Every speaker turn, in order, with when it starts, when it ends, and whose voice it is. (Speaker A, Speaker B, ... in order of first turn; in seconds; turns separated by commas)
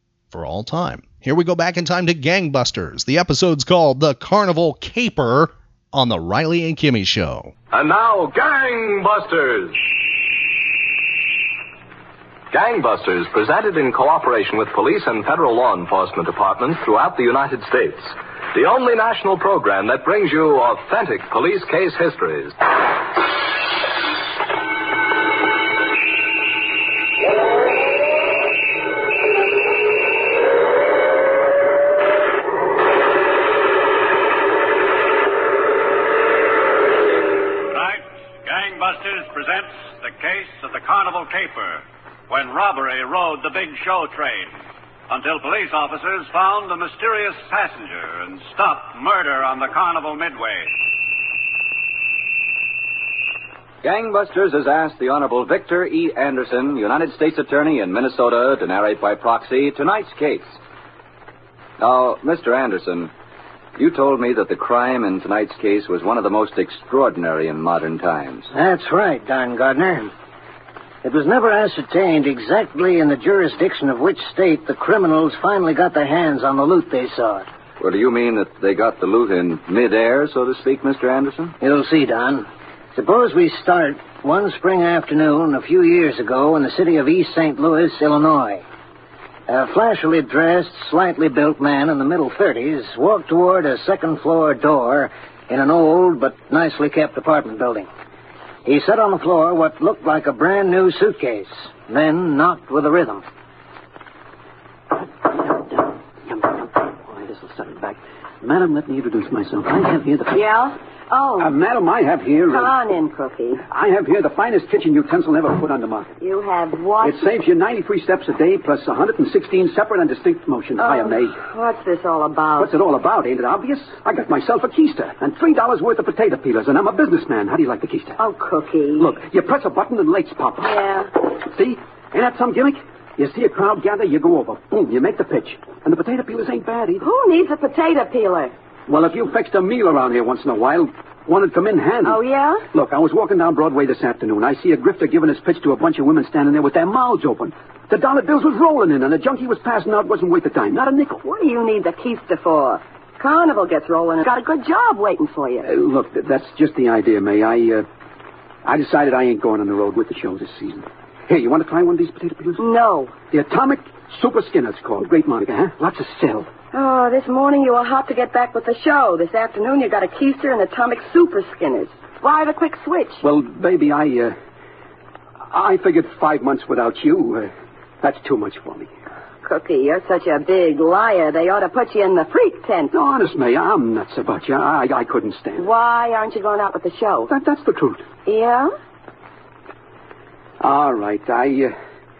Speaker A: 0.3-7.5, Speaker B: 7.7-9.7, Speaker B: 12.5-22.5, Speaker C: 37.6-50.7, Speaker B: 53.8-60.6, Speaker B: 61.8-63.1, Speaker B: 63.8-68.5, Speaker D: 68.5-70.1, Speaker D: 71.0-77.5, Speaker B: 77.8-81.5, Speaker D: 81.6-88.6, Speaker D: 89.5-97.9, Speaker D: 98.6-103.2, Speaker E: 105.2-110.5, Speaker F: 110.3-111.5, Speaker E: 111.4-112.7, Speaker F: 112.5-113.6, Speaker E: 113.7-116.1, Speaker F: 116.2-117.2, Speaker E: 117.0-121.4, Speaker F: 120.8-122.7, Speaker E: 122.6-128.2, Speaker F: 128.2-129.1, Speaker E: 129.0-130.8, Speaker F: 130.6-131.1, Speaker E: 131.4-137.1, Speaker F: 137.0-138.5, Speaker E: 138.9-142.2, Speaker F: 142.0-142.6, Speaker E: 142.7-151.2, Speaker F: 151.2-155.7, Speaker E: 155.6-157.8, Speaker E: 158.6-162.6, Speaker F: 162.6-163.1, Speaker E: 163.3-166.5, Speaker F: 166.7-173.2, Speaker E: 173.2-174.3, Speaker E: 175.5-177.5, Speaker E: 178.0-178.9, Speaker F: 179.4-182.9, Speaker E: 182.9-185.7, Speaker F: 185.6-187.3, Speaker E: 187.3-188.1, Speaker F: 188.2-188.7, Speaker E: 190.6-191.7